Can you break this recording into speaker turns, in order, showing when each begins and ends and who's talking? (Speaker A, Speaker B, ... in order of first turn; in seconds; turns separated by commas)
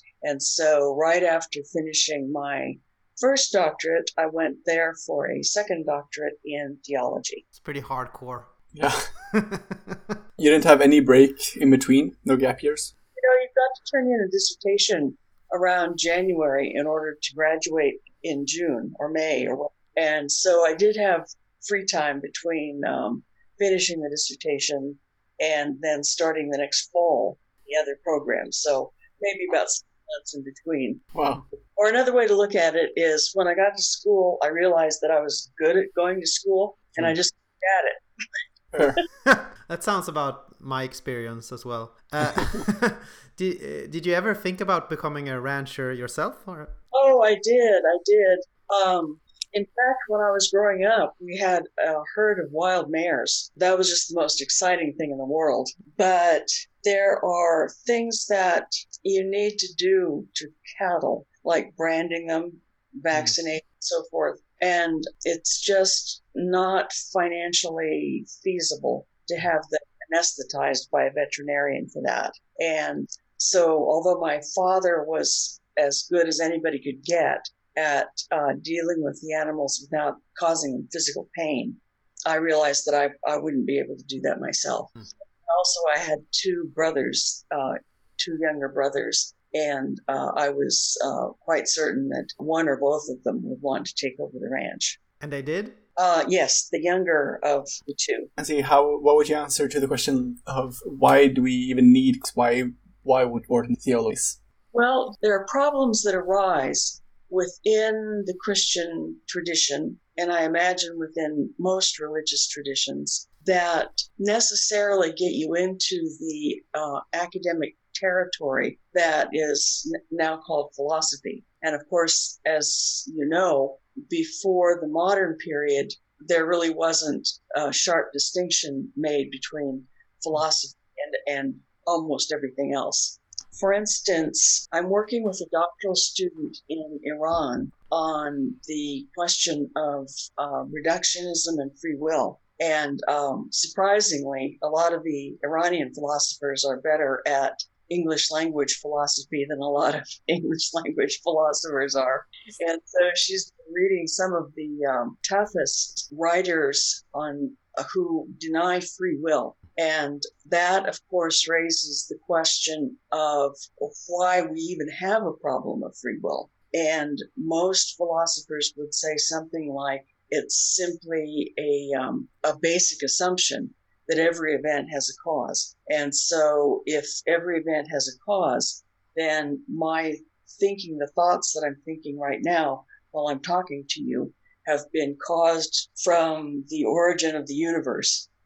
Speaker A: 0.2-7.4, Speaker B: 7.5-8.5, Speaker C: 8.7-9.1, Speaker B: 9.2-10.2, Speaker C: 10.4-12.9, Speaker A: 13.2-31.0, Speaker C: 31.1-31.4, Speaker A: 31.7-39.0, Speaker C: 38.7-39.0, Speaker B: 39.2-46.7, Speaker A: 46.9-95.0, Speaker B: 95.2-95.8, Speaker A: 96.0-98.3, Speaker C: 98.4-104.4, Speaker A: 104.7-188.3